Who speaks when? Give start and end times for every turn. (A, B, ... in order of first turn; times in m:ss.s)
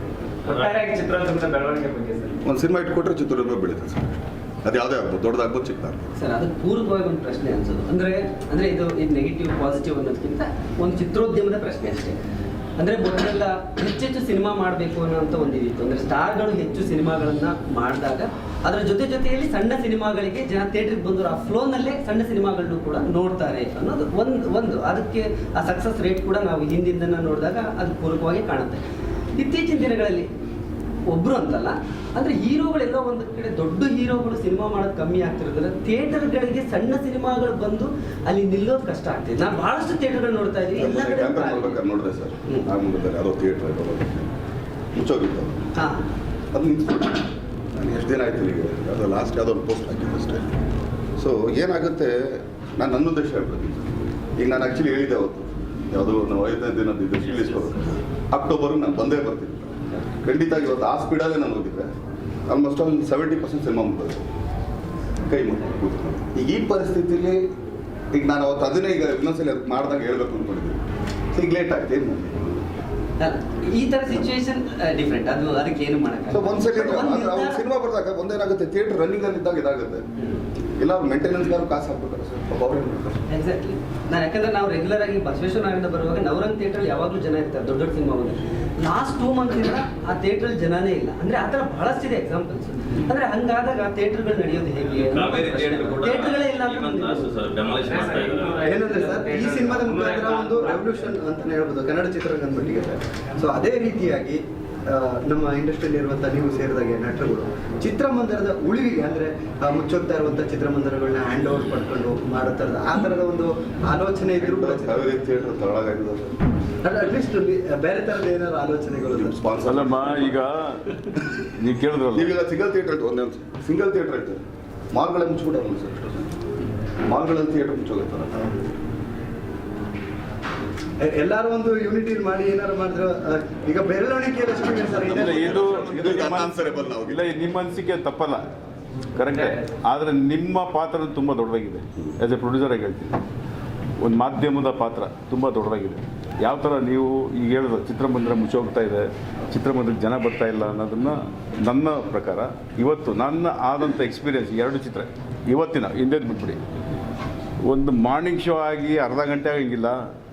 0:00.4-0:02.4 A
0:00.5-0:00.7 B
0:02.4-0:06.1 C
0:06.2-0:12.2 D
0:12.8-0:28.8 D
0:29.4-0:30.3 D
0:31.1-0:41.8 D
0:40.8-0:44.3 C
0:45.0-0:45.7 C
0:45.8-0:46.0 D
0:46.5-0:47.2 C
0:47.7-0:50.5 C
0:51.2-1:01.9 C
0:57.2-0:57.9 B
1:02.5-1:04.2 C
1:05.3-1:07.4 C
1:08.1-1:10.8 C
1:11.3-1:12.6 C
1:13.2-1:17.6 D
1:16.3-1:20.1 C
1:20.8-1:23.2 C
1:23.3-1:37.3 D
1:35.0-1:38.7 B
1:37.8-1:40.8 A
1:38.6-1:55.2 E
1:54.4-1:56.4 C
1:56.8-1:59.5 E
1:59.1-2:00.4 C
1:59.6-2:01.0 F
2:01.6-2:02.4 F
2:02.1-2:04.4 C
2:04.9-2:06.4 C
2:07.1-2:08.6 C
2:11.0-2:16.3 E
2:14.5-2:17.2 C
2:15.1-2:18.5 F
2:19.2-2:23.2 F
2:24.0-2:36.6 F
2:37.6-2:40.0 F